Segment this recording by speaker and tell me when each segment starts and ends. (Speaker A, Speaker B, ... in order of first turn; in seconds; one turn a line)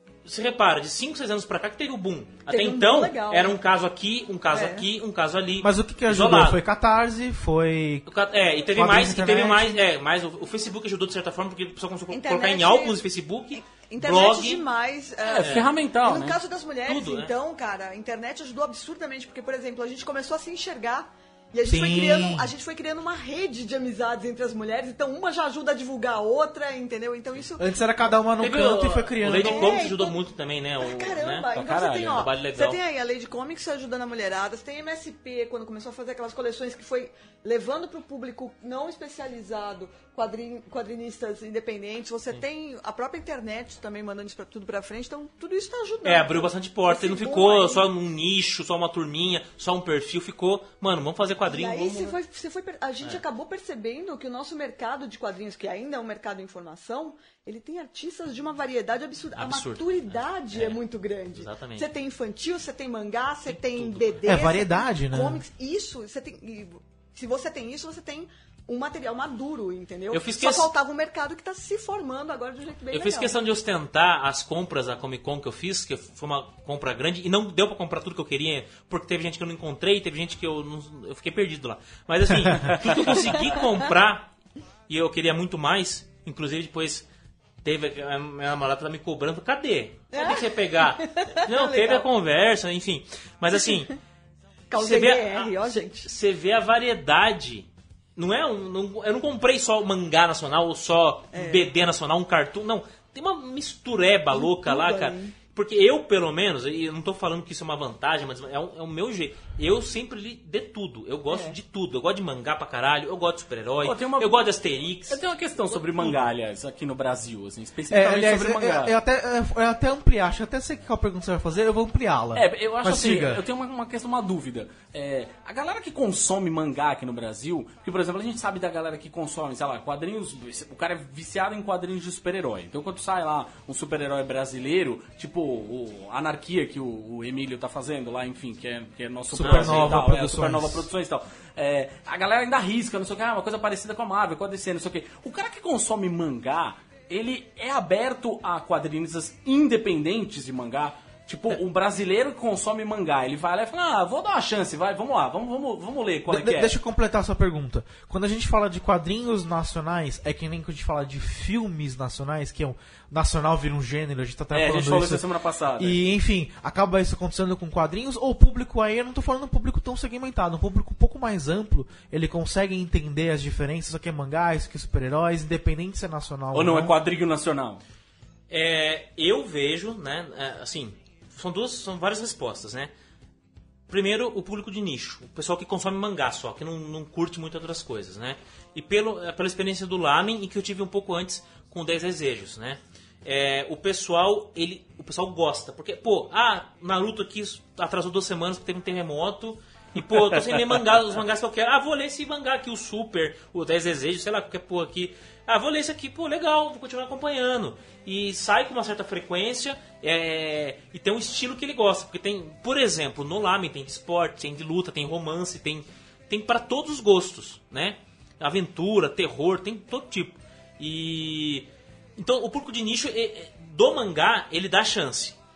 Speaker A: 0.2-6.6
Speaker B: 2.5-3.6
Speaker B: 4.5-4.8
Speaker C: 5.6-8.1
Speaker A: 8.1-14.6
Speaker C: 8.7-9.8
Speaker B: 12.1-13.0
Speaker B: 13.6-27.7
Speaker D: 15.2-16.4
Speaker A: 15.4-15.7
Speaker A: 16.9-17.3
Speaker C: 21.6-22.5
Speaker C: 27.6-29.8
Speaker A: 28.4-31.5
Speaker B: 29.3-30.2
Speaker B: 30.8-47.9
Speaker D: 31.5-32.3
Speaker A: 32.1-32.8
Speaker A: 46.0-52.2
Speaker B: 51.5-73.3
Speaker A: 59.4-60.8
Speaker A: 61.3-61.9
Speaker A: 63.5-64.1
Speaker C: 64.2-65.4
Speaker A: 70.1-70.7
Speaker A: 72.9-84.3
Speaker C: 82.4-82.7
Speaker A: 84.9-87.0
Speaker A: 87.6-93.9
Speaker B: 90.1-92.0
Speaker B: 94.7-96.1
Speaker A: 94.7-116.3
Speaker B: 101.3-101.7
Speaker B: 104.3-105.3
Speaker B: 111.3-111.5
Speaker D: 113.8-114.4
Speaker D: 115.1-118.9
Speaker C: 117.9-123.4
Speaker D: 122.3-156.8
Speaker C: 139.3-140.9
Speaker A: 139.3-140.1
Speaker C: 156.3-176.9
Speaker D: 164.5-166.0
Speaker D: 176.5-177.8
Speaker A: 178.5-182.9
Speaker A: 183.9-225.4